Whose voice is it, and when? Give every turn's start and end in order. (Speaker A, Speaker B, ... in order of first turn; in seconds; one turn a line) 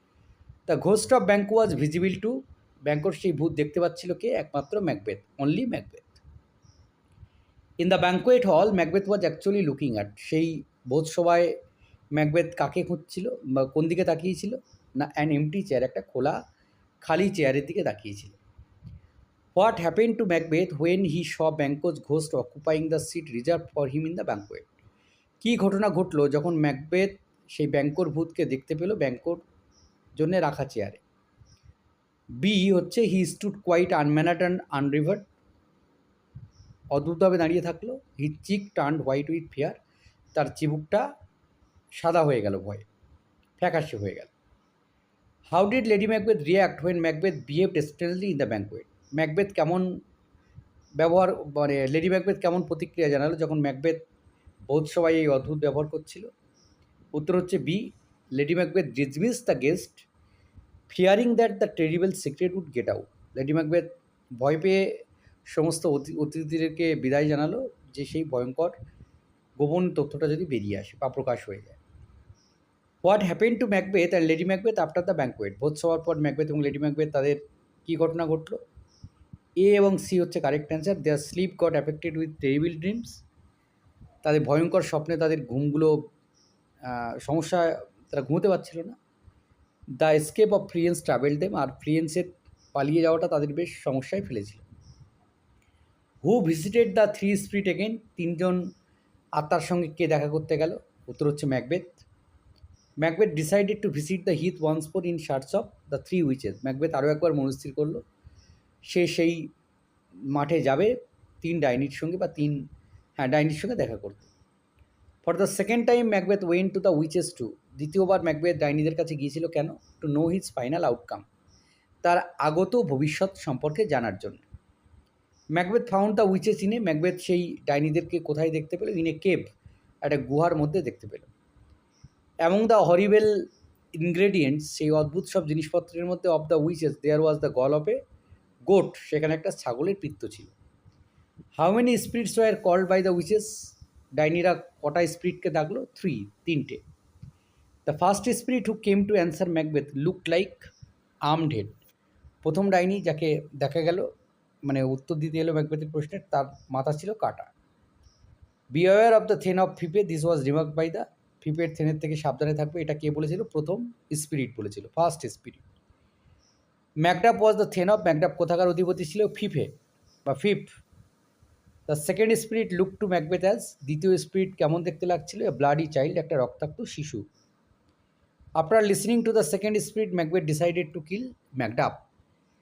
Speaker A: 0.7-6.2
Speaker A: 7.8-11.6
Speaker A: 12.1-16.4
Speaker A: 17.0-18.4
Speaker A: 19.6-24.7
Speaker A: 25.4-29.4
Speaker A: 30.2-31.0
Speaker A: 32.4-35.3
Speaker A: 36.9-39.8
Speaker A: 40.3-41.1
Speaker A: 42.0-42.9
Speaker A: 43.6-44.3
Speaker A: 45.5-50.0
Speaker A: 51.0-54.0
Speaker A: 54.7-56.3
Speaker A: 57.1-60.1
Speaker A: 60.9-68.8
Speaker A: 69.6-71.8
Speaker A: 73.0-78.6
Speaker A: 79.6-83.2
Speaker A: 84.2-86.1
Speaker A: 86.8-89.0
Speaker A: 90.0-94.7
Speaker A: 96.2-98.7
Speaker A: 99.4-102.0
Speaker A: 103.0-108.0
Speaker A: 108.9-109.5
Speaker A: 110.3-112.7
Speaker A: 113.2-114.3
Speaker A: 115.2-121.2
Speaker A: 122.0-124.4
Speaker A: 125.5-129.5
Speaker A: 130.0-131.3
Speaker A: 132.4-138.0
Speaker A: 138.7-140.5
Speaker A: 141.6-146.8
Speaker A: 147.9-150.7
Speaker A: 151.2-151.8
Speaker A: 152.4-154.1
Speaker A: 154.6-157.5
Speaker A: 158.7-165.6
Speaker A: 167.0-169.8
Speaker A: 170.3-170.7
Speaker A: 171.9-177.3
Speaker A: 178.6-182.0